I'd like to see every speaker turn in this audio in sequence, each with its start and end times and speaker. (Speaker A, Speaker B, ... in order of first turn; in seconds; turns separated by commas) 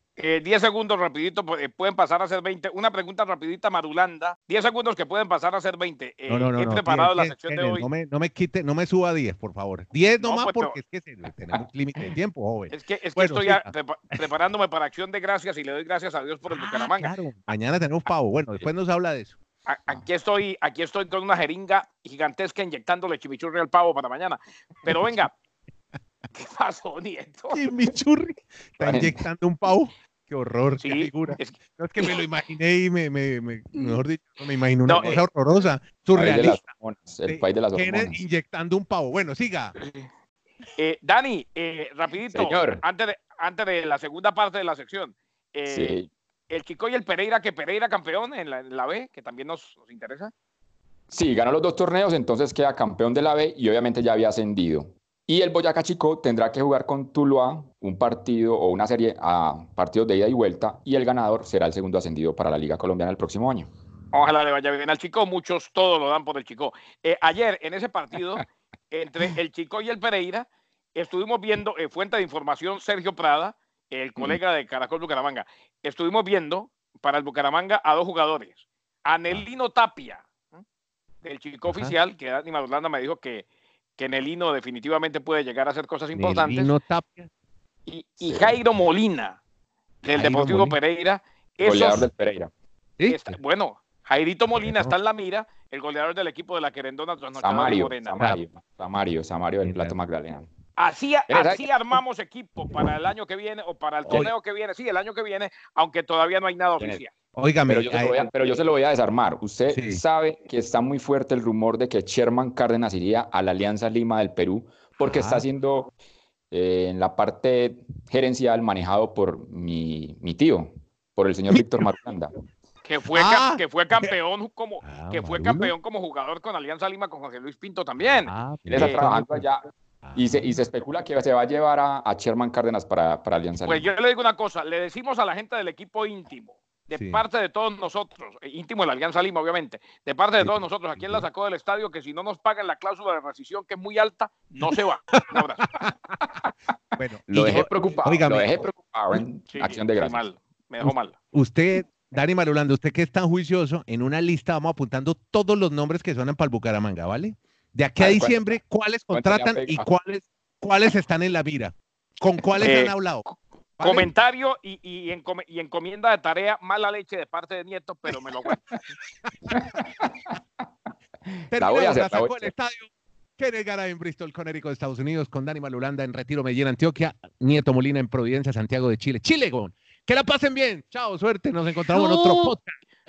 Speaker A: 0.2-7.9, Speaker B: 6.3-13.7, Speaker A: 10.2-10.8, Speaker A: 12.7-17.1, Speaker B: 16.4-19.4, Speaker A: 19.7-25.3, Speaker B: 24.9-25.2, Speaker A: 26.3-27.6, Speaker B: 27.5-36.6, Speaker C: 28.8-29.2, Speaker A: 30.8-32.2, Speaker A: 34.9-35.2, Speaker C: 36.1-38.2, Speaker B: 37.2-39.8, Speaker A: 39.8-40.1, Speaker A: 40.8-46.0, Speaker C: 42.3-42.8, Speaker C: 45.7-46.1, Speaker A: 46.5-50.3, Speaker C: 51.1-63.7, Speaker A: 64.1-80.6, Speaker A: 81.2-86.7, Speaker B: 81.7-81.9, Speaker B: 86.1-87.3, Speaker A: 87.9-89.4, Speaker C: 88.2-88.5, Speaker A: 90.0-92.1, Speaker B: 90.1-90.8, Speaker C: 91.6-92.5, Speaker B: 93.0-93.4, Speaker A: 93.0-98.2, Speaker B: 94.5-94.9, Speaker C: 97.4-100.5, Speaker B: 99.6-99.9, Speaker A: 100.8-107.1, Speaker C: 101.3-101.7, Speaker B: 104.0-104.3, Speaker B: 107.3-108.2, Speaker C: 107.7-115.9, Speaker B: 109.7-110.0, Speaker B: 115.0-115.4, Speaker C: 116.5-122.3, Speaker B: 121.5-121.9, Speaker A: 122.8-129.0, Speaker B: 123.1-124.1, Speaker B: 124.8-125.7, Speaker B: 128.2-129.4, Speaker C: 128.7-133.9, Speaker B: 130.0-130.6, Speaker A: 133.6-145.7, Speaker B: 136.9-137.2, Speaker B: 140.4-141.2, Speaker B: 145.1-145.9, Speaker B: 147.0-148.5, Speaker C: 147.3-150.2, Speaker A: 149.5-151.2, Speaker B: 150.8-163.2, Speaker C: 158.0-158.6, Speaker C: 159.1-159.9, Speaker A: 162.6-168.6, Speaker B: 163.8-164.1, Speaker C: 169.5-170.3, Speaker B: 171.5-182.7, Speaker C: 171.5-172.5, Speaker A: 181.9-182.6